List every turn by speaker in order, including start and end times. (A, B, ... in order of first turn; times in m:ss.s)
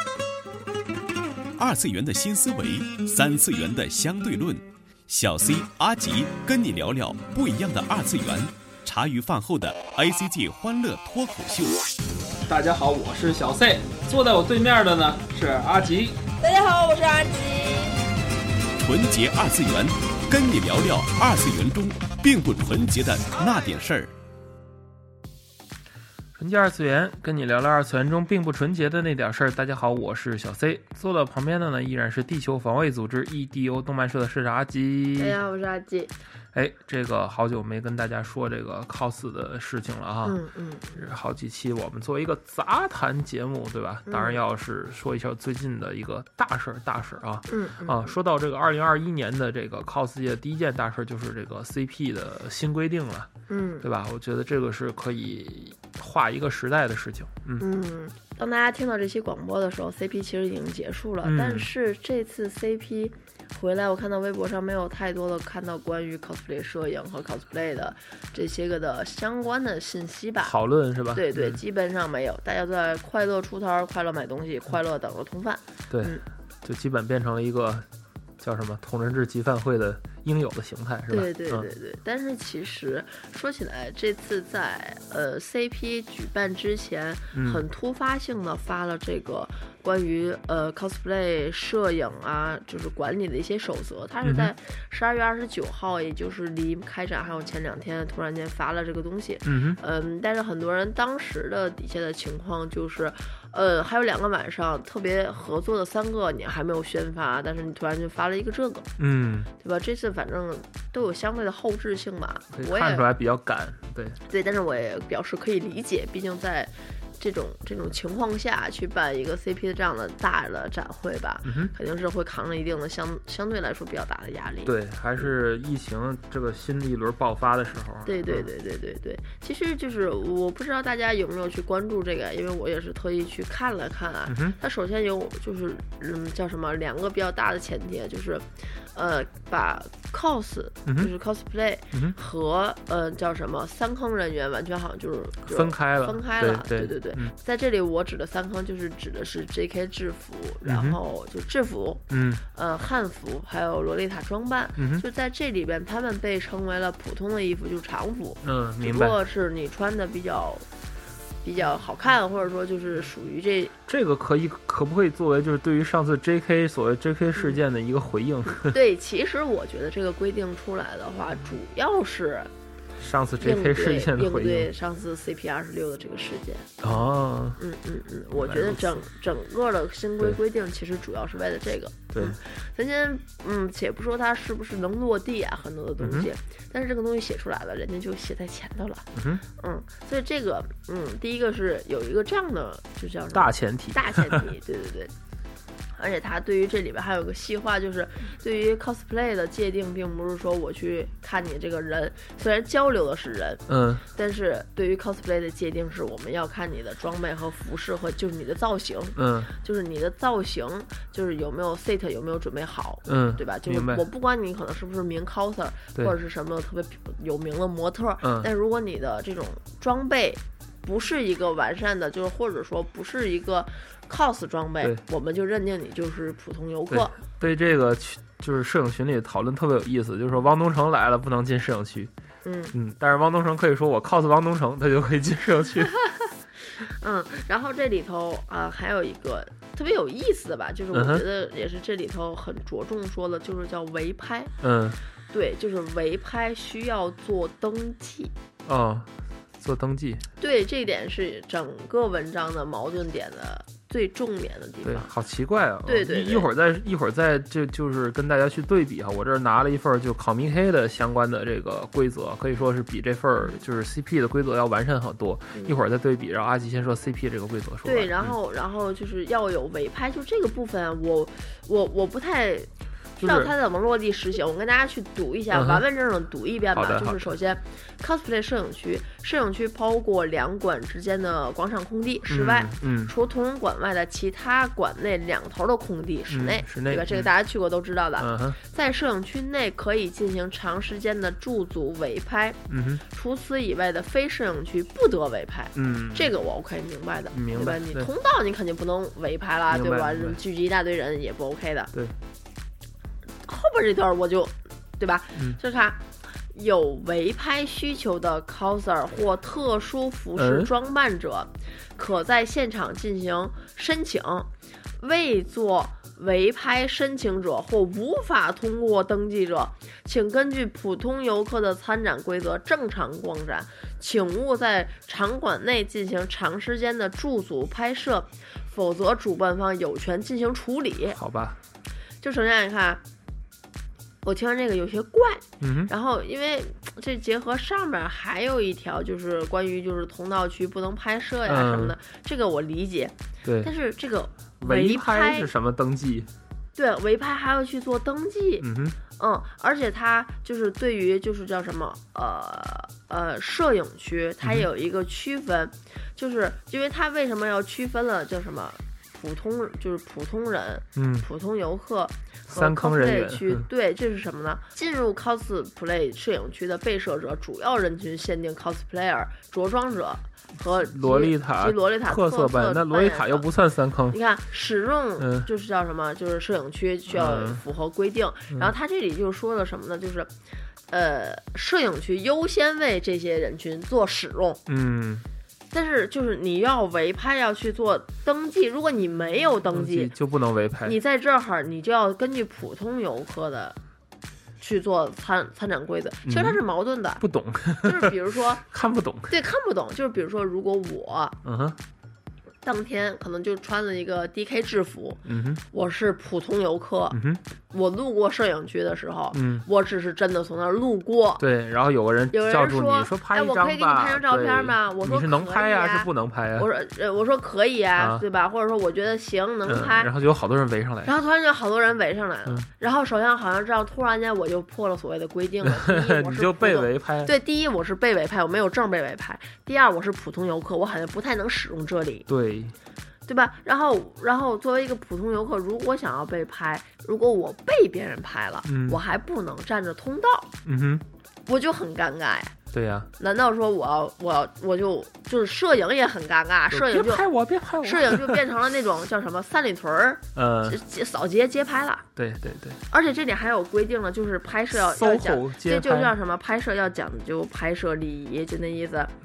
0:01.6-0:11.8 A
0:12.5-0:16.2 B
0:16.4-0:18.0 C
0:18.8-0:24.1 A
0:26.4-0:35.4 B
0:35.2-0:36.1 C
0:36.5-0:40.4 B
0:40.2-0:41.0 C
0:40.9-0:53.3 B
0:44.1-0:44.4 C
0:47.5-0:48.1 C
0:53.5-0:53.9 C
0:53.8-0:57.6 B
0:57.6-1:10.6 C
1:01.2-1:01.7 B
1:10.4-1:11.6 B
1:11.1-1:16.2 C
1:15.9-1:17.8 B
1:18.4-1:21.7 B
1:21.1-1:48.9 C
1:27.3-1:27.6 B
1:34.2-1:34.5 B
1:39.4-1:39.8 B
1:49.0-1:49.5 B
1:49.6-1:53.0 C
1:52.5-1:54.2 B
1:54.3-2:05.2 C
2:01.4-2:01.7 B
2:04.6-2:08.5 B
2:08.0-2:40.6 C
2:14.3-2:14.6 B
2:20.8-2:21.1 B
2:25.4-2:27.3 B
2:30.6-2:31.0 B
2:32.1-2:32.4 B
2:34.8-2:35.0 B
2:38.4-2:39.2 B
2:41.4-2:43.7 C
2:43.9-2:48.8 B
2:48.7-2:52.5 C
2:53.0-2:54.7 B
2:53.4-2:56.9 C
2:56.8-2:57.6 B
2:57.6-3:09.1 C
2:58.3-2:59.0 B
3:02.1-3:02.4 B
3:06.0-3:06.3 B
3:09.1-3:09.4 B
3:09.6-3:15.1 C
3:13.3-3:14.5 B
3:15.9-3:47.2 C
3:23.7-3:24.0 B
3:29.2-3:29.5 B
3:33.0-3:34.0 B
3:38.2-3:38.5 B
3:46.9-3:52.1 B
3:52.4-3:52.7 C
3:52.7-3:55.9 B
3:56.8-4:04.5 C
4:00.9-4:01.2 B
4:04.6-4:05.0 B
4:05.3-4:08.3 C
4:08.6-4:10.2 B
4:10.4-4:15.1 C
4:14.8-4:28.4 B
4:15.8-4:16.5 C
4:27.8-5:01.9 C
4:33.2-4:33.5 B
4:35.5-4:35.8 B
4:36.7-4:37.3 B
4:42.3-4:43.1 B
4:46.3-4:47.3 B
4:48.2-4:48.6 B
4:52.7-4:53.0 B
4:55.7-4:56.3 B
4:57.3-4:58.1 B
4:59.7-5:00.4 B
5:03.4-5:31.2 C
5:10.4-5:10.7 B
5:31.2-5:31.6 B
5:32.2-5:33.0 C
5:34.2-5:45.5 C
5:35.6-5:35.9 B
5:41.4-5:42.0 B
5:43.4-5:43.7 B
5:44.6-5:46.3 B
5:46.7-6:13.5 C
5:48.6-5:49.0 B
5:54.4-5:54.7 B
6:00.9-6:01.3 B
6:02.5-6:03.7 B
6:10.6-6:14.2 B
6:14.1-6:20.3 C
6:15.2-6:15.5 B
6:17.1-6:17.6 B
6:20.9-6:24.6 C
6:24.7-6:25.2 B
6:25.7-6:30.1 C
6:29.7-6:31.0 B
6:30.8-6:33.8 C
6:34.6-6:37.2 C
6:36.2-6:36.6 B
6:37.2-6:39.3 B
6:37.8-6:38.6 C
6:39.3-6:41.4 C
6:41.4-6:41.8 B
6:42.6-6:51.4 C
6:45.2-6:45.6 B
6:47.1-6:47.4 B
6:49.3-6:49.6 B
6:51.4-6:56.7 B
6:52.3-7:00.1 C
6:58.0-6:58.2 B
6:59.6-7:01.1 B
7:01.0-7:12.3 C
7:05.6-7:07.3 B
7:12.3-7:12.7 B
7:13.2-7:20.5 C
7:18.6-7:19.0 B
7:20.6-7:21.0 B
7:21.4-7:22.5 C
7:22.7-7:23.1 B
7:23.2-7:27.2 C
7:26.7-7:28.4 B
7:27.8-7:32.0 C
7:30.3-7:30.8 B
7:32.2-7:32.8 B
7:32.9-7:39.1 C
7:34.7-7:36.1 B